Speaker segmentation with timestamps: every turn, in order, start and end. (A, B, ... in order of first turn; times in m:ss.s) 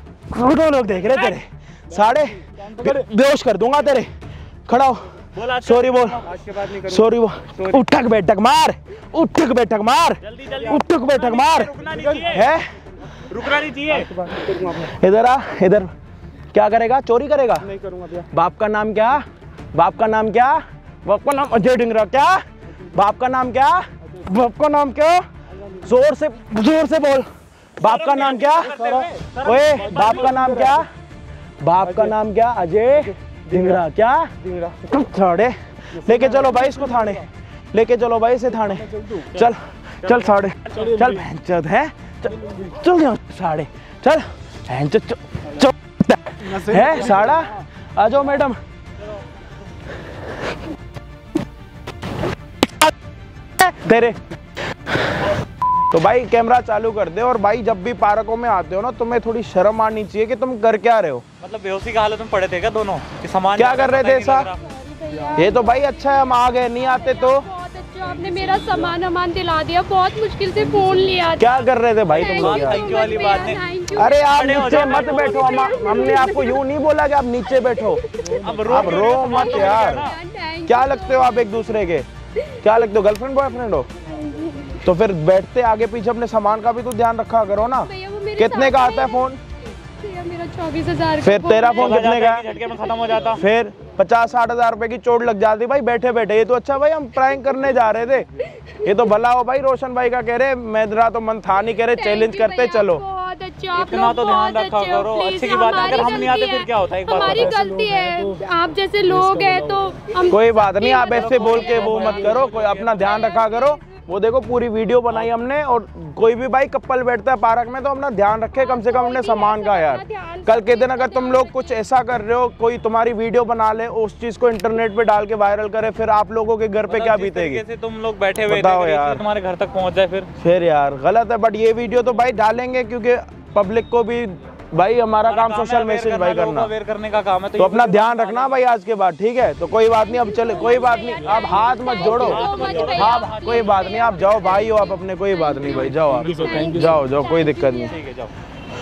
0:00.3-0:04.1 A
0:01.0-0:01.4 B
0:04.7-0:05.0 A
0:05.3-0:07.0 B
0:05.6-0:06.2 A
0:06.8-0:12.7 A
0:10.2-0:12.5 B
0:13.3-0:14.2 B
0:14.8-0:15.9 A
0:16.5-0:17.7 A
0:17.8-0:18.2 C
0:18.3-0:25.2 A
0:25.8-0:27.2 A
0:27.8-0:28.8 A
0:27.8-0:30.5 B
0:29.4-0:30.9 A
0:31.6-0:48.6 A
0:40.0-0:41.1 B
0:46.6-0:46.9 C
0:53.6-0:54.2 A
0:55.9-1:01.2 A
1:01.4-1:04.6 B
1:03.5-1:04.5 A
1:04.5-1:16.7 D
1:05.4-1:07.5 A
1:11.3-1:12.9 A
1:12.1-1:13.6 B
1:13.9-1:18.0 A
1:14.3-1:15.9 B
1:17.5-1:18.4 D
1:18.3-1:18.7 C
1:18.4-1:20.2 B
1:18.6-1:20.0 A
1:19.2-1:21.7 D
1:20.6-1:22.0 A
1:22.6-1:23.9 A
1:24.2-1:24.8 D
1:24.8-1:29.4 A
1:27.7-1:33.4 D
1:31.2-1:32.5 A
1:31.7-1:33.4 B
1:33.3-1:38.2 A
1:38.6-1:39.0 D
1:38.8-1:43.0 A
1:41.8-1:51.6 D
1:43.7-1:47.6 B
1:47.5-1:48.4 C
1:49.2-1:49.6 C
1:50.3-2:07.6 A
1:51.1-1:53.2 B
1:53.0-1:54.0 D
1:58.5-2:01.8 D
2:06.9-2:10.3 B
2:08.5-2:09.2 A
2:10.4-2:16.7 A
2:15.2-2:18.6 B
2:17.6-2:28.0 A
2:20.0-2:28.1 D
2:22.0-2:24.0 B
2:26.1-2:26.5 B
2:26.3-2:26.9 C
2:27.9-2:28.3 B